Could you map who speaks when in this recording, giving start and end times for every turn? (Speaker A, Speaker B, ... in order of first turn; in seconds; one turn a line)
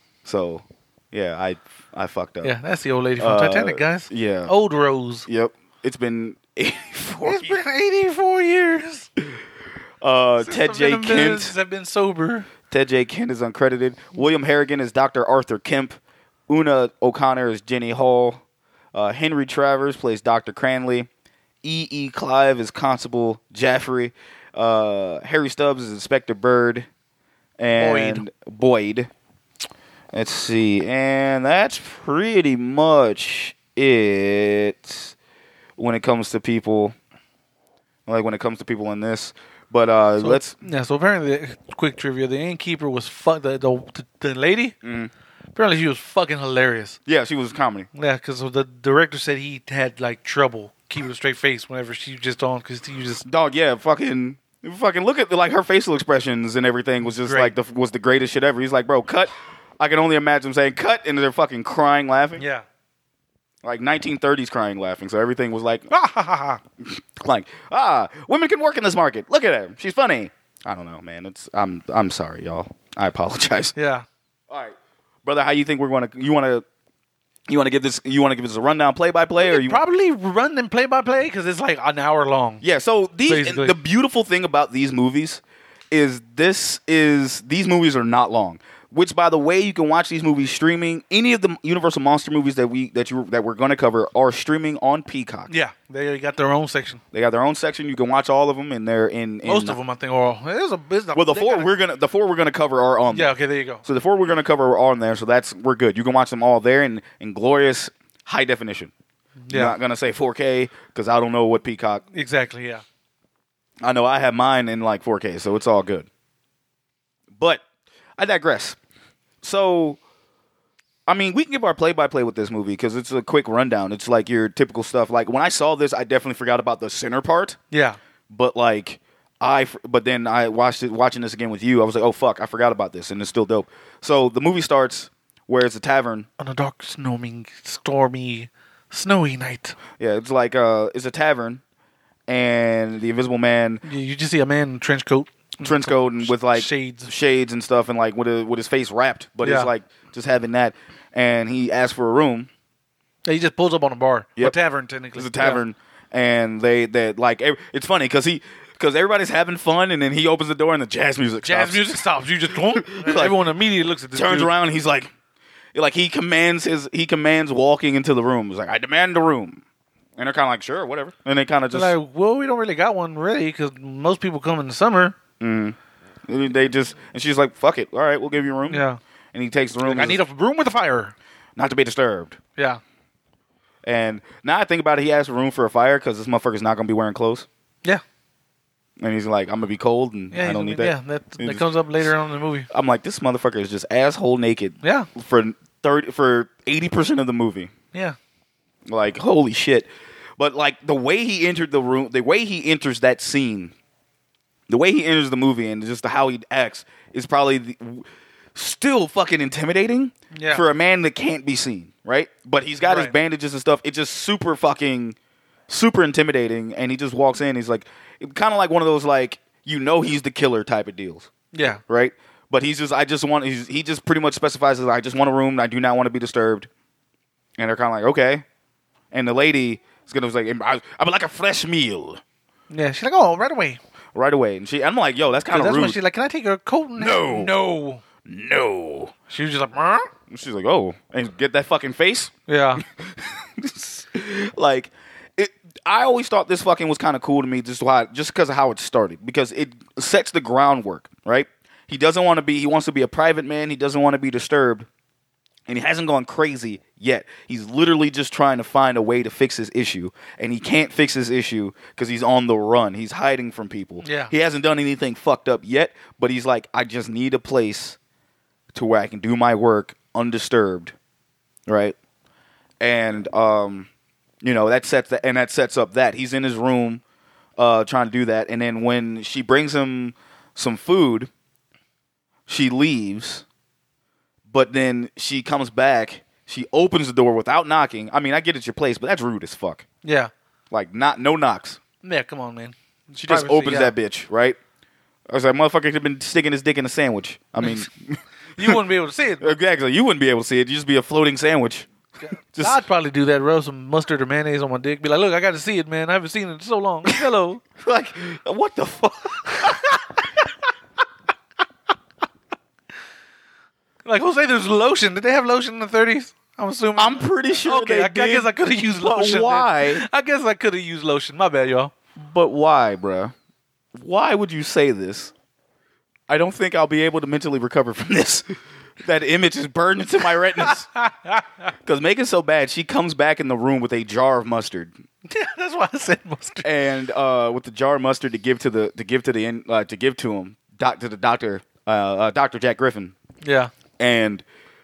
Speaker A: 0.2-2.6
Speaker B: 2.4-5.2
Speaker A: 3.2-4.5
Speaker A: 5.3-7.6
Speaker B: 7.2-9.1
Speaker A: 10.0-11.5
Speaker B: 10.4-12.5
Speaker A: 12.7-15.9
Speaker A: 16.5-18.4
Speaker A: 18.9-21.1
Speaker A: 21.6-26.9
Speaker A: 27.6-29.1
Speaker B: 27.7-28.2
Speaker A: 30.1-35.1
Speaker A: 35.8-36.9
Speaker A: 38.1-40.5
Speaker B: 40.2-44.7
Speaker A: 44.8-45.1
Speaker B: 45.5-47.0
Speaker A: 47.1-47.9
Speaker B: 47.9-53.2
Speaker A: 53.2-62.4
Speaker B: 57.0-57.5
Speaker B: 62.4-62.6
Speaker A: 63.6-65.9
Speaker B: 65.9-66.6
Speaker A: 66.8-73.7
Speaker B: 73.7-74.0
Speaker A: 74.5-76.6
Speaker A: 77.5-79.8
Speaker B: 79.4-82.6
Speaker A: 82.6-95.5
Speaker B: 83.3-83.8
Speaker B: 95.5-97.0
Speaker A: 97.1-99.8
Speaker B: 99.4-101.7
Speaker A: 101.1-103.3
Speaker B: 103.1-103.8
Speaker A: 103.8-108.9
Speaker B: 109.4-109.8
Speaker A: 109.5-112.0
Speaker B: 112.1-112.8
Speaker A: 113.8-116.1
Speaker A: 117.4-117.6
Speaker A: 118.2-118.8
Speaker A: 119.4-120.0
Speaker A: 121.1-127.6
Speaker B: 127.7-128.0
Speaker A: 128.3-136.3
Speaker B: 136.4-139.8
Speaker A: 140.0-141.6
Speaker A: 142.3-143.8
Speaker B: 143.8-147.1
Speaker A: 145.6-152.5
Speaker B: 149.4-149.7
Speaker B: 153.2-155.6
Speaker A: 155.1-161.8
Speaker B: 161.4-164.5
Speaker A: 162.7-163.4
Speaker A: 164.1-165.1
Speaker A: 165.7-169.6
Speaker A: 170.2-171.9
Speaker B: 171.7-175.2
Speaker A: 175.4-180.2
Speaker B: 178.7-179.0
Speaker B: 179.8-181.1
Speaker A: 181.6-182.4
Speaker A: 183.8-187.5
Speaker A: 189.0-192.1
Speaker B: 190.3-192.7
Speaker A: 192.7-197.7
Speaker B: 194.8-195.1
Speaker A: 198.9-203.7
Speaker A: 204.7-215.2
Speaker B: 210.3-210.6
Speaker B: 212.8-213.1
Speaker A: 215.7-221.3
Speaker B: 221.5-221.8
Speaker A: 221.9-226.7
Speaker A: 227.6-228.4
Speaker A: 229.1-232.2
Speaker B: 232.7-233.8
Speaker A: 234.1-236.0
Speaker B: 235.5-238.0
Speaker A: 237.0-237.5
Speaker A: 238.2-239.1
Speaker B: 239.3-240.1
Speaker A: 240.3-242.3
Speaker B: 242.5-242.8
Speaker A: 242.9-254.9
Speaker A: 255.7-268.0
Speaker B: 264.0-264.3
Speaker A: 268.7-270.9
Speaker A: 271.7-271.9
Speaker A: 272.8-273.9
Speaker A: 274.4-277.0
Speaker A: 277.6-281.3
Speaker A: 282.5-283.4
Speaker A: 284.5-289.8
Speaker B: 290.0-290.3
Speaker A: 290.7-291.8
Speaker B: 292.0-293.9
Speaker A: 293.2-294.6
Speaker A: 295.3-298.8
Speaker B: 298.6-299.6
Speaker A: 299.4-301.9
Speaker B: 302.2-307.6
Speaker A: 302.5-302.8
Speaker A: 307.8-310.0
Speaker B: 314.0-321.9
Speaker A: 317.0-320.0
Speaker A: 322.2-323.3
Speaker A: 323.9-325.3
Speaker A: 326.3-328.4
Speaker A: 329.0-330.9
Speaker B: 330.6-331.5
Speaker A: 331.8-334.9
Speaker B: 335.3-336.7
Speaker A: 336.6-343.1
Speaker B: 343.4-343.7
Speaker A: 344.0-344.4